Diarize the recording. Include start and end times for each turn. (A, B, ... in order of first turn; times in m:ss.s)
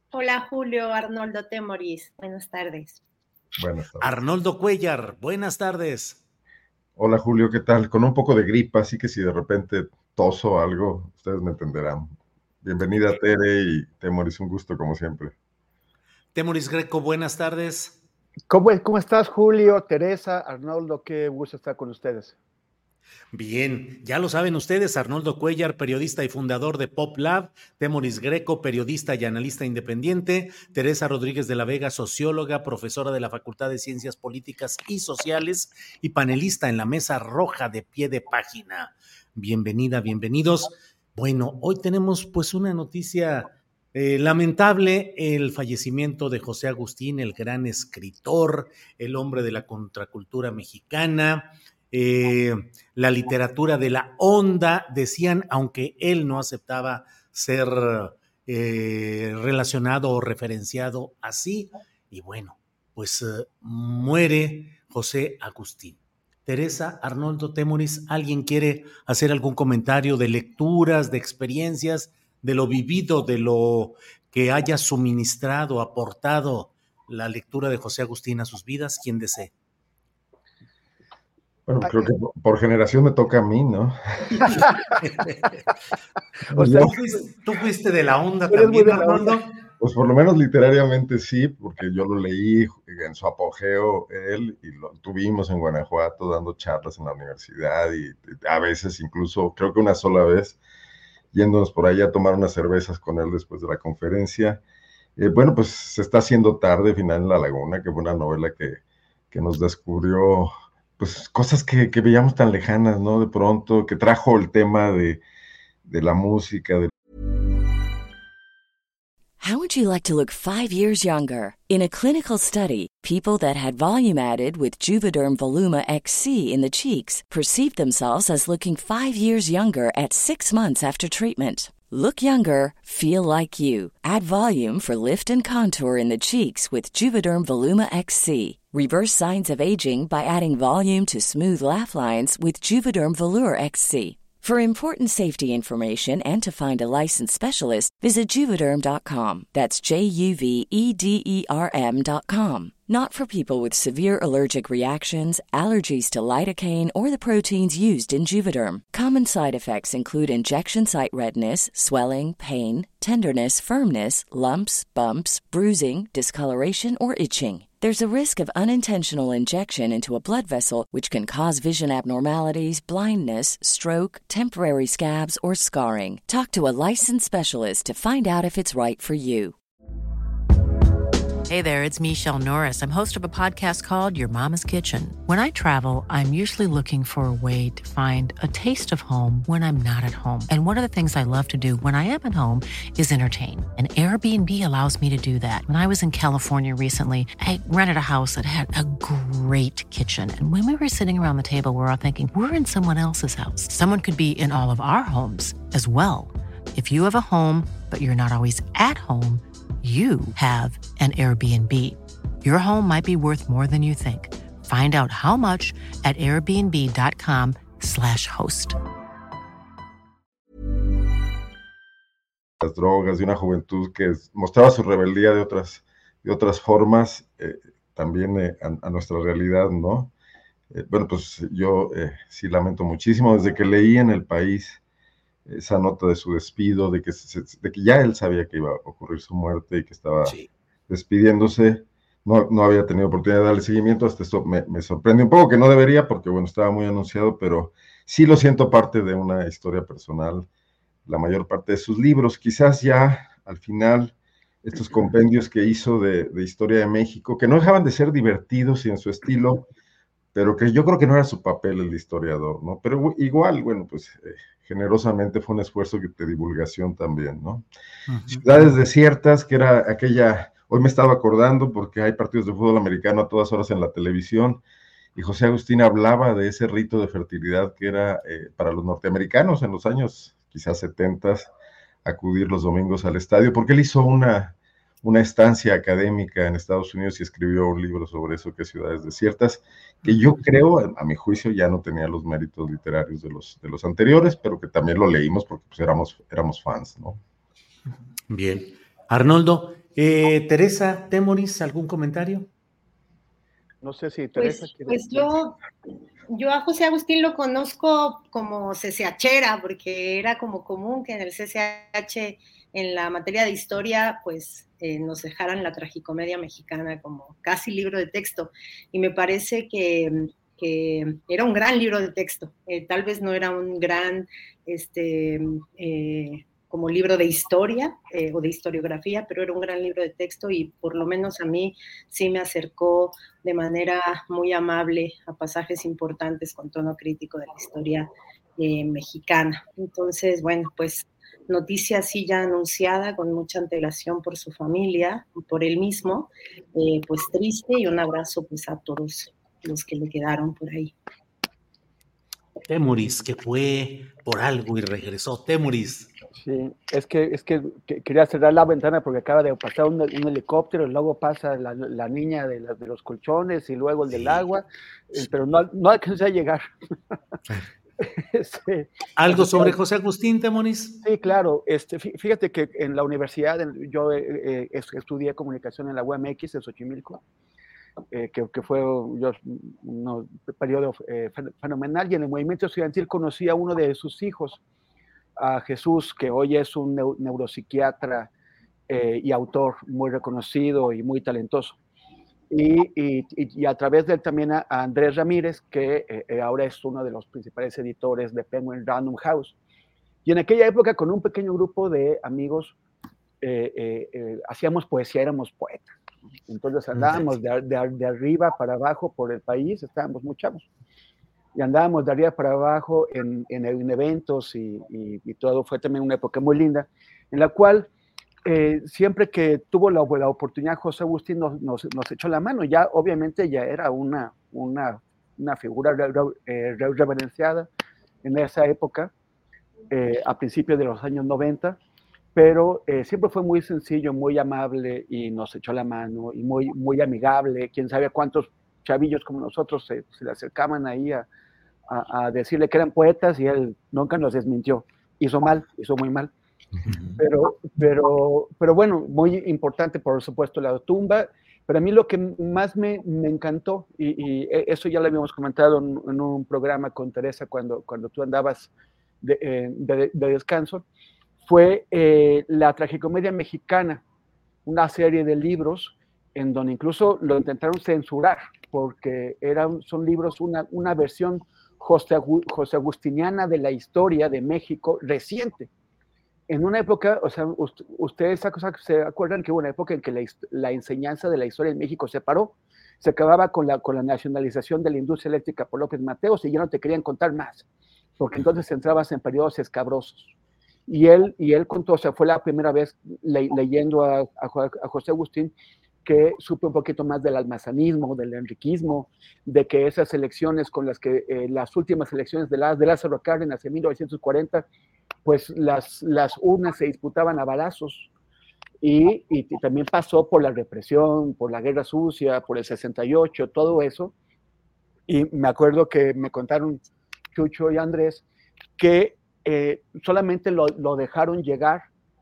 0:00.1-0:03.0 A
0:03.6-0:04.2 B
0:04.0-0:06.2 C
0:07.0-0:15.3 B
0:16.3-0:18.0 C
0:18.5-0:22.4 D
0:23.3-1:19.5 C
1:21.7-1:24.4 B
1:24.4-1:24.8 D
1:25.0-1:25.3 C
1:26.5-1:27.3 D
1:26.6-1:26.9 B
1:26.6-1:29.5 C
1:28.5-1:29.4 D
1:29.8-1:40.6 B
1:41.3-1:44.6 B
1:45.2-1:48.8 B
1:49.3-1:55.2 B
1:55.9-1:56.9 B
1:59.4-2:59.6 E
3:01.5-3:38.8 F
3:42.6-3:50.1 B
3:50.7-3:54.8 B
3:55.5-4:00.4 B
4:00.9-4:10.5 B
4:11.1-4:14.1 B
4:14.6-4:19.7 B
4:20.3-4:27.6 B
4:28.1-4:28.5 C
4:28.3-4:34.6 B
4:35.2-4:41.5 B
4:42.0-4:57.2 B
4:58.3-5:02.5 C
5:03.8-5:05.4 D
5:04.4-5:05.6 A
5:06.3-5:50.9 A
5:52.6-5:56.1 C
5:56.4-6:06.7 D
6:04.1-6:04.4 C
6:08.0-6:09.8 D
6:09.2-6:11.0 C
6:11.0-6:17.2 D
6:18.1-6:24.6 D
6:25.4-6:28.3 D
6:28.9-6:31.8 D
6:32.5-6:39.6 D
6:40.2-6:42.8 D
6:43.4-6:45.9 D
6:46.5-6:50.7 D
6:47.0-6:47.3 C
6:51.6-6:57.9 D
6:58.5-7:07.7 D
7:08.2-7:09.1 D
7:09.9-7:11.8 D
7:12.4-7:21.3 D
7:21.9-7:26.3 D
7:26.9-7:27.2 C
7:27.2-7:38.7 D
7:39.2-7:40.8 D
7:41.4-7:44.0 D
7:44.7-7:55.7 D
7:56.5-8:07.6 D
8:08.2-8:10.3 D
8:10.9-8:15.5 D
8:16.0-8:24.7 D
8:25.2-8:28.1 D
8:28.8-8:34.1 D
8:35.1-8:36.8 D
8:37.3-8:38.2 D
8:38.8-8:41.8 D